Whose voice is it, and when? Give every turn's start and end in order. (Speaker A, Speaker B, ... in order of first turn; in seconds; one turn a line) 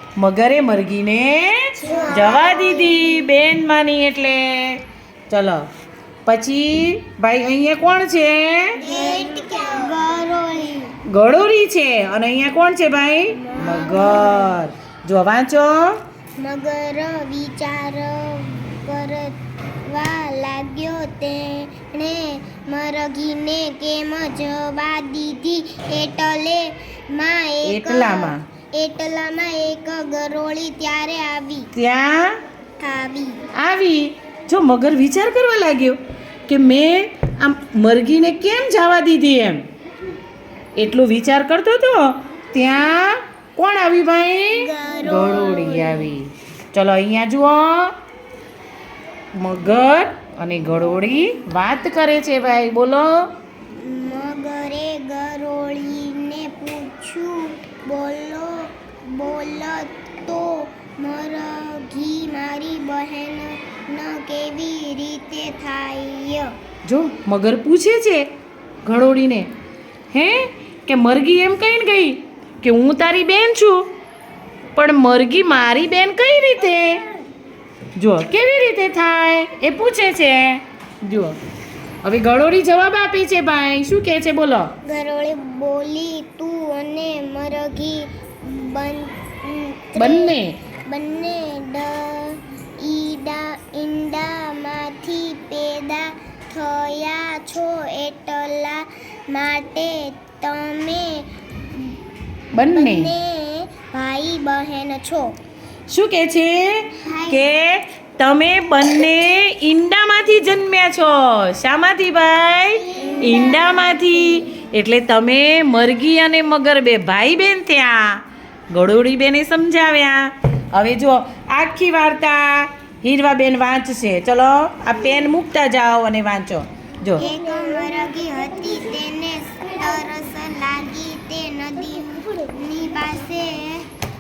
Speaker A: 0.2-5.6
Speaker B: 1.8-3.1
Speaker A: 6.2-8.8
Speaker B: 8.8-10.9
Speaker A: 11.1-16.0
Speaker B: 13.3-14.5
Speaker B: 16.4-31.7
Speaker A: 27.6-28.4
Speaker A: 31.8-32.4
Speaker B: 32.8-33.4
Speaker A: 33.5-39.6
Speaker A: 40.8-47.9
Speaker B: 44.5-46.1
Speaker A: 49.3-53.3
Speaker B: 53.8-66.5
Speaker A: 66.8-68.3
Speaker A: 68.8-69.5
Speaker A: 70.1-73.9
Speaker A: 74.7-77.0
Speaker A: 78.0-81.4
Speaker A: 82.0-84.7
Speaker B: 84.8-90.3
Speaker A: 90.0-90.5
Speaker B: 90.9-102.0
Speaker A: 102.5-103.1
Speaker B: 102.7-105.3
Speaker A: 105.9-127.2
Speaker B: 107.0-107.5
Speaker B: 112.9-114.0
Speaker B: 127.2-133.9